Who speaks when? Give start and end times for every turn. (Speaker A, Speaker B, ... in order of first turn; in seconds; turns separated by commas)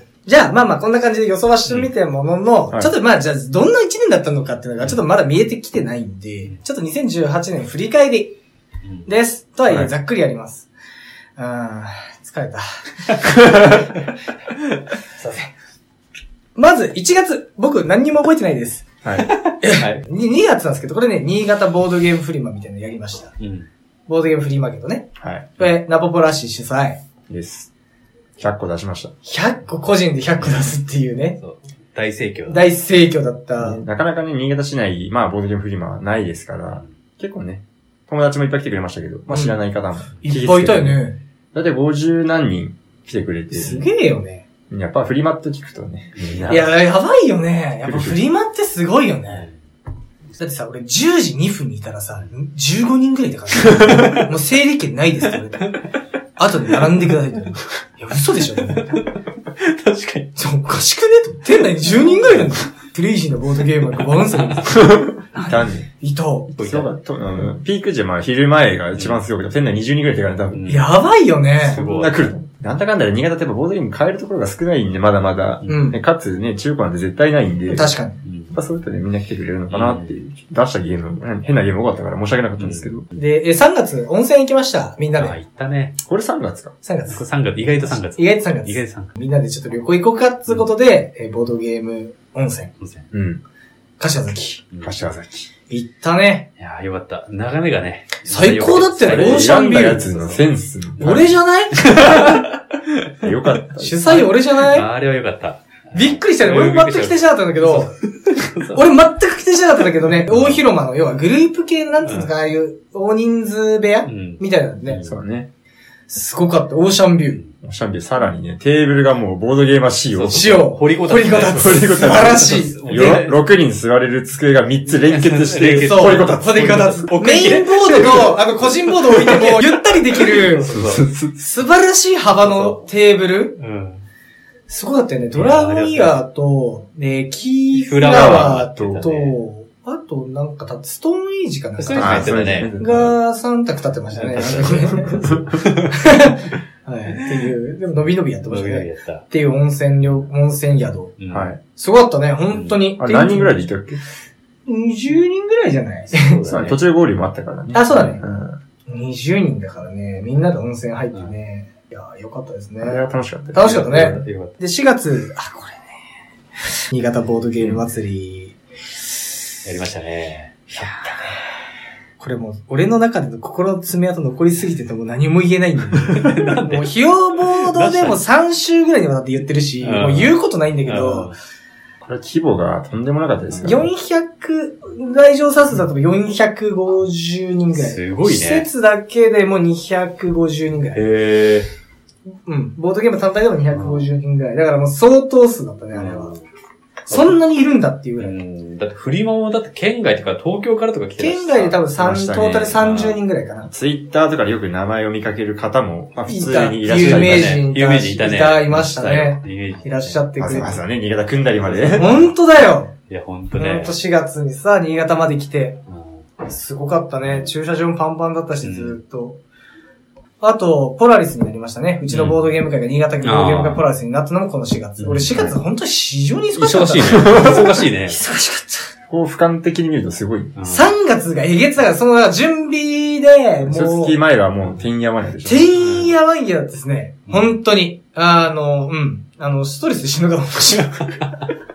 Speaker A: 0.2-8.3, Speaker A: 9.1-10.7, Speaker A: 11.4-13.8, Speaker A: 15.1-15.5, Speaker A: 16.6-18.9, Speaker A: 19.4-23.3, Speaker B: 19.6-20.0, Speaker B: 23.4-23.7, Speaker A: 24.1-27.0, Speaker C: 25.2-25.6, Speaker C: 27.3-27.7, Speaker C: 28.4-29.1, Speaker A: 29.2-31.4, Speaker B: 30.4-30.7, Speaker B: 31.4-32.7, Speaker A: 32.5-33.8, Speaker C: 33.6-41.0, Speaker A: 39.3-39.6, Speaker A: 40.2-41.2, Speaker C: 41.5-43.9, Speaker A: 43.5-44.5, Speaker C: 44.7-46.7, Speaker B: 46.2-46.5, Speaker A: 46.5-49.5, Speaker C: 47.8-48.2, Speaker A: 50.4-55.8, Speaker B: 53.7-54.3, Speaker A: 56.4-59.1, Speaker B: 58.7-60.3, Speaker A: 60.4-66.5, Speaker B: 61.8-62.5, Speaker B: 64.0-64.6, Speaker C: 64.7-65.9, Speaker C: 66.5-70.8, Speaker B: 66.6-66.9, Speaker B: 69.0-69.2, Speaker B: 70.5-70.8, Speaker A: 70.7-71.8, Speaker C: 71.6-77.9, Speaker B: 71.7-72.3, Speaker A: 75.7-76.0, Speaker A: 77.7-78.2, Speaker B: 78.2-78.5, Speaker C: 78.5-83.1, Speaker B: 79.7-80.1, Speaker B: 82.6-82.9, Speaker A: 83.2-85.3, Speaker B: 85.2-86.0, Speaker C: 86.0-86.7, Speaker A: 86.8-92.7, Speaker B: 87.1-89.1, Speaker B: 92.8-93.1, Speaker C: 93.1-93.4, Speaker A: 94.0-94.6, Speaker B: 94.7-95.0, Speaker C: 94.8-95.5, Speaker A: 95.7-96.5, Speaker B: 96.6-100.4, Speaker A: 98.3-100.3, Speaker C: 99.0-101.4, Speaker A: 101.0-102.5, Speaker B: 101.8-103.3, Speaker C: 103.2-104.1, Speaker A: 103.8-104.9, Speaker B: 104.0-108.8, Speaker A: 105.9-107.9, Speaker A: 108.7-115.0, Speaker B: 110.3-110.6, Speaker B: 112.0-112.3, Speaker B: 114.0-115.1, Speaker C: 115.0-115.5, Speaker A: 116.1-117.4, Speaker C: 117.6-126.9, Speaker B: 120.1-123.4, Speaker A: 120.3-122.8, Speaker B: 124.9-131.1, Speaker A: 125.8-130.7, Speaker C: 130.7-131.4, Speaker A: 131.3-133.6, Speaker B: 132.3-132.8, Speaker B: 133.6-134.0, Speaker A: 134.7-145.2, Speaker B: 135.3-136.2, Speaker B: 137.7-139.3, Speaker C: 138.1-138.7, Speaker B: 141.8-142.7, Speaker C: 141.9-143.2, Speaker B: 144.1-146.1, Speaker C: 144.6-145.4, Speaker A: 145.9-151.1, Speaker B: 147.2-147.5, Speaker B: 148.5-149.2, Speaker B: 151.2-151.5, Speaker C: 151.3-151.6, Speaker A: 151.7-153.6, Speaker B: 152.5-152.8, Speaker C: 153.0-154.0, Speaker A: 154.7-156.4, Speaker B: 156.1-156.8, Speaker C: 156.5-158.6, Speaker A: 157.7-158.2, Speaker A: 158.9-163.0, Speaker C: 162.8-163.9, Speaker A: 163.5-165.8, Speaker B: 163.6-164.5, Speaker A: 166.9-168.6, Speaker B: 169.6-170.6, Speaker A: 170.7-171.4, Speaker A: 172.2-181.3, Speaker B: 176.1-178.2, Speaker B: 179.8-181.3, Speaker C: 182.0-183.9, Speaker B: 183.5-183.8, Speaker A: 183.6-191.0, Speaker B: 187.8-188.7, Speaker B: 190.9-191.7, Speaker A: 192.4-196.3, Speaker B: 193.7-194.1, Speaker B: 195.9-196.4, Speaker A: 197.1-198.4, Speaker B: 197.1-197.3, Speaker B: 198.2-201.8, Speaker A: 201.2-203.7, Speaker C: 201.9-203.1, Speaker B: 202.8-203.2, Speaker C: 203.7-207.6, Speaker A: 206.3-210.8, Speaker B: 206.8-210.2, Speaker C: 210.4-212.1, Speaker B: 211.6-212.0, Speaker A: 211.9-212.9, Speaker B: 213.1-214.0, Speaker A: 213.5-215.8, Speaker B: 215.9-216.2, Speaker A: 216.4-219.4, Speaker B: 218.6-219.0, Speaker A: 220.4-228.8, Speaker B: 222.1-222.5, Speaker B: 223.2-223.9, Speaker B: 225.0-225.5, Speaker B: 226.6-228.2, Speaker C: 227.0-227.8, Speaker C: 229.1-230.5, Speaker B: 230.6-230.9, Speaker A: 230.7-234.2, Speaker C: 233.6-235.7, Speaker A: 235.4-241.2, Speaker B: 235.8-236.1, Speaker B: 237.3-237.5